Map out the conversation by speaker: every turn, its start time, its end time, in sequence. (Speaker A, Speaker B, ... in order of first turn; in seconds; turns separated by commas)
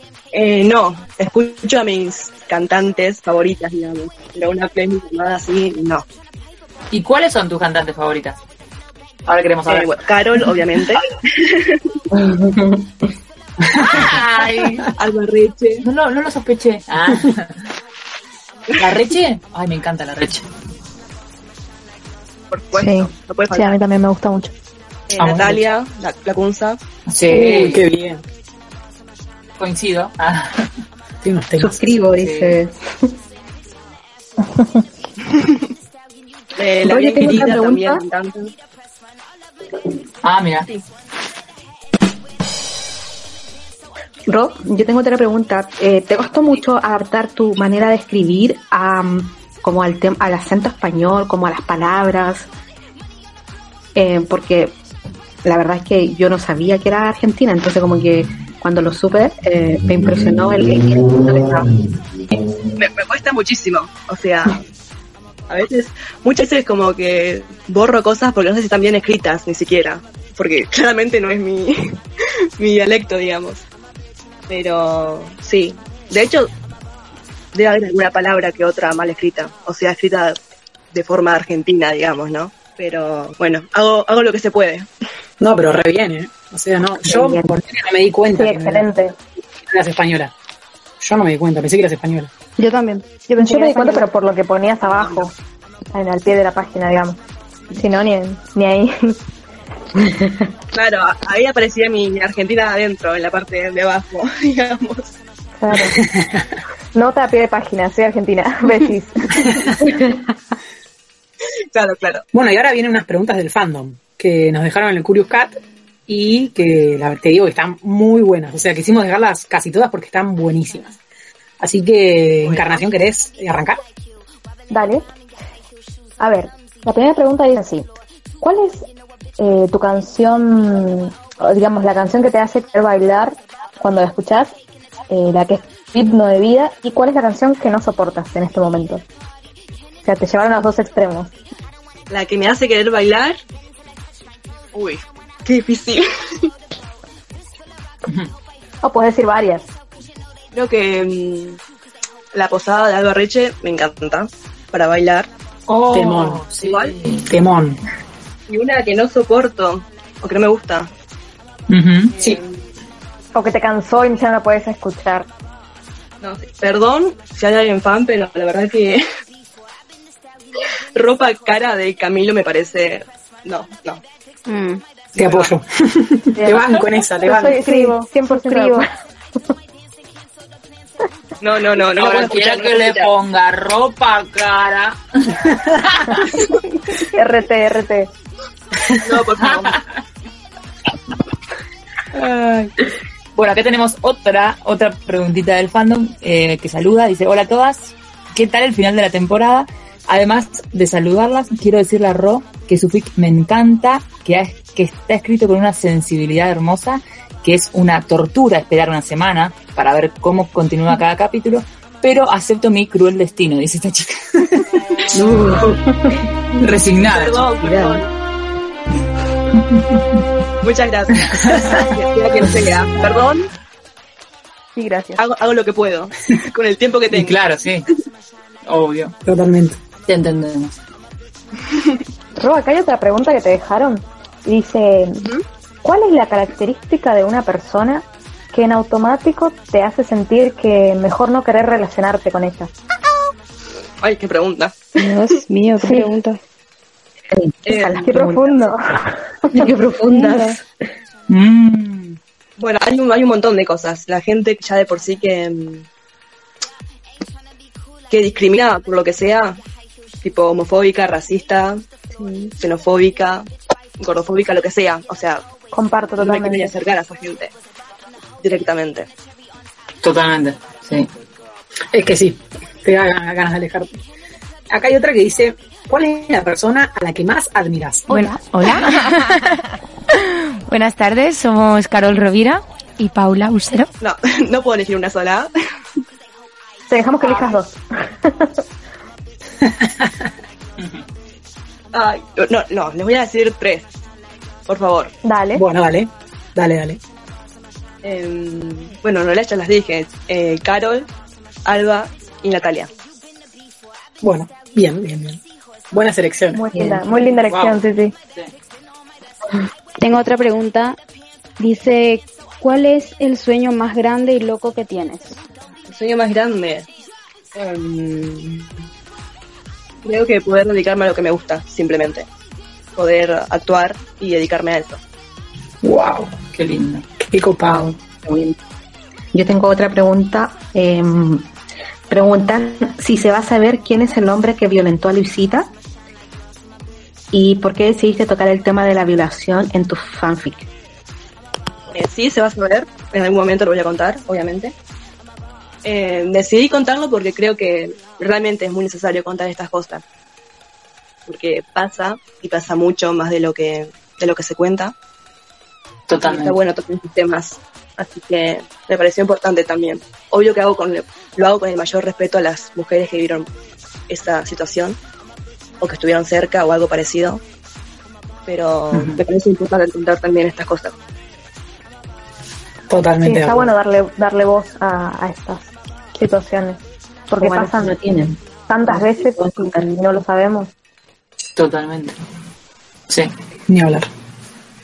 Speaker A: 0.3-6.0, Speaker B: 6.9-8.4, Speaker B: 9.3-9.9, Speaker A: 9.7-12.0, Speaker C: 12.1-12.9, Speaker B: 13.7-14.9, Speaker D: 13.8-14.1, Speaker A: 15.0-15.8, Speaker B: 15.8-17.6, Speaker B: 18.8-20.5, Speaker A: 22.5-23.8, Speaker E: 22.7-24.5, Speaker A: 25.1-26.8, Speaker B: 25.2-25.6, Speaker B: 27.1-27.9, Speaker D: 27.3-28.2, Speaker B: 29.6-30.7, Speaker D: 31.2-31.9, Speaker C: 31.6-33.1, Speaker B: 32.1-32.6, Speaker A: 36.6-38.5, Speaker C: 36.8-38.0, Speaker B: 40.2-40.7, Speaker C: 44.3-52.5, Speaker C: 54.0-54.8, Speaker C: 55.4-61.8, Speaker A: 62.8-64.6, Speaker A: 65.5-72.0, Speaker A: 72.6-73.6, Speaker A: 74.5-76.5, Speaker A: 77.5-80.4, Speaker A: 80.9-84.9, Speaker D: 85.4-88.9, Speaker C: 87.0-87.5, Speaker E: 88.3-89.2, Speaker D: 89.7-90.3, Speaker D: 91.0-92.3, Speaker F: 92.6-94.1, Speaker E: 93.4-95.3, Speaker A: 94.9-95.2, Speaker E: 95.9-97.2, Speaker E: 97.7-99.2, Speaker A: 100.7-105.2, Speaker E: 105.6-106.0, Speaker D: 106.0-106.4, Speaker E: 107.0-109.7, Speaker A: 111.7-112.2, Speaker D: 112.3-121.0, Speaker D: 121.6-123.8, Speaker A: 122.4-122.8, Speaker E: 124.7-125.0, Speaker E: 126.2-127.9, Speaker E: 128.4-128.9, Speaker E: 129.4-134.6, Speaker E: 135.1-139.1, Speaker E: 140.0-141.3, Speaker A: 142.1-143.4, Speaker A: 144.7-146.5, Speaker B: 148.1-148.3, Speaker E: 148.8-149.7, Speaker A: 150.5-151.6, Speaker A: 152.3-155.3, Speaker B: 155.7-157.3, Speaker D: 155.9-156.4, Speaker A: 156.6-156.9, Speaker D: 157.3-157.8, Speaker A: 158.5-160.9, Speaker B: 161.7-162.2, Speaker A: 162.1-162.6, Speaker E: 163.3-165.3, Speaker A: 166.2-169.0, Speaker A: 170.9-174.0, Speaker F: 174.5-174.8, Speaker A: 175.1-175.5, Speaker D: 175.2-177.6, Speaker E: 176.3-178.9, Speaker F: 177.7-178.9, Speaker A: 181.4-183.1, Speaker B: 181.9-186.4, Speaker E: 186.9-188.1, Speaker A: 189.0-189.8, Speaker B: 189.4-189.8, Speaker B: 192.1-192.7, Speaker B: 193.3-214.7, Speaker C: 215.1-216.2, Speaker B: 216.6-217.5, Speaker A: 217.0-218.1, Speaker C: 217.6-218.0, Speaker A: 220.6-223.5, Speaker E: 224.8-225.2, Speaker A: 225.2-227.4, Speaker B: 227.1-227.9, Speaker B: 228.7-229.2, Speaker D: 229.2-229.8, Speaker B: 230.1-230.8, Speaker E: 232.4-235.3, Speaker E: 235.8-242.7, Speaker A: 244.0-245.1, Speaker F: 245.0-246.4, Speaker E: 245.8-246.1, Speaker C: 247.3-248.7, Speaker A: 247.7-248.0, Speaker E: 248.0-249.7, Speaker C: 249.5-250.6, Speaker F: 250.1-250.6, Speaker B: 251.3-252.2, Speaker A: 252.6-255.9, Speaker A: 258.1-259.6, Speaker A: 260.2-261.8, Speaker F: 262.2-262.5, Speaker A: 262.6-263.5, Speaker A: 264.0-265.4, Speaker E: 265.7-266.7, Speaker A: 266.2-267.5, Speaker A: 268.4-269.1, Speaker B: 270.0-271.1, Speaker D: 271.9-273.9, Speaker D: 274.7-278.2, Speaker G: 278.1-279.3, Speaker G: 280.7-283.8, Speaker A: 284.0-285.5, Speaker E: 286.9-288.6, Speaker A: 287.2-287.6, Speaker D: 289.7-290.1, Speaker B: 290.8-291.1, Speaker A: 291.9-293.9, Speaker A: 294.7-295.1, Speaker E: 295.2-295.6, Speaker D: 295.6-297.0, Speaker A: 298.0-301.1, Speaker A: 301.7-302.9, Speaker D: 304.2-305.4, Speaker D: 305.9-306.6, Speaker E: 306.5-308.1, Speaker C: 306.8-307.0, Speaker F: 310.0-311.0, Speaker F: 311.6-315.4, Speaker A: 315.9-316.9, Speaker A: 317.5-318.7, Speaker A: 320.1-322.3, Speaker A: 323.0-325.0, Speaker D: 325.8-326.3, Speaker B: 326.5-327.1, Speaker D: 327.2-327.9, Speaker C: 327.6-328.6, Speaker C: 329.3-331.5, Speaker C: 332.1-335.7, Speaker C: 337.3-340.7, Speaker A: 341.9-344.7, Speaker A: 345.9-350.0, Speaker A: 351.3-354.9, Speaker B: 356.1-356.6, Speaker A: 356.2-363.5, Speaker A: 364.1-365.0, Speaker A: 365.8-367.4, Speaker A: 368.5-370.9, Speaker B: 368.9-369.2, Speaker D: 372.9-373.7, Speaker E: 373.2-378.0, Speaker C: 377.4-379.9, Speaker E: 378.7-380.7, Speaker B: 381.6-382.2, Speaker D: 383.7-384.1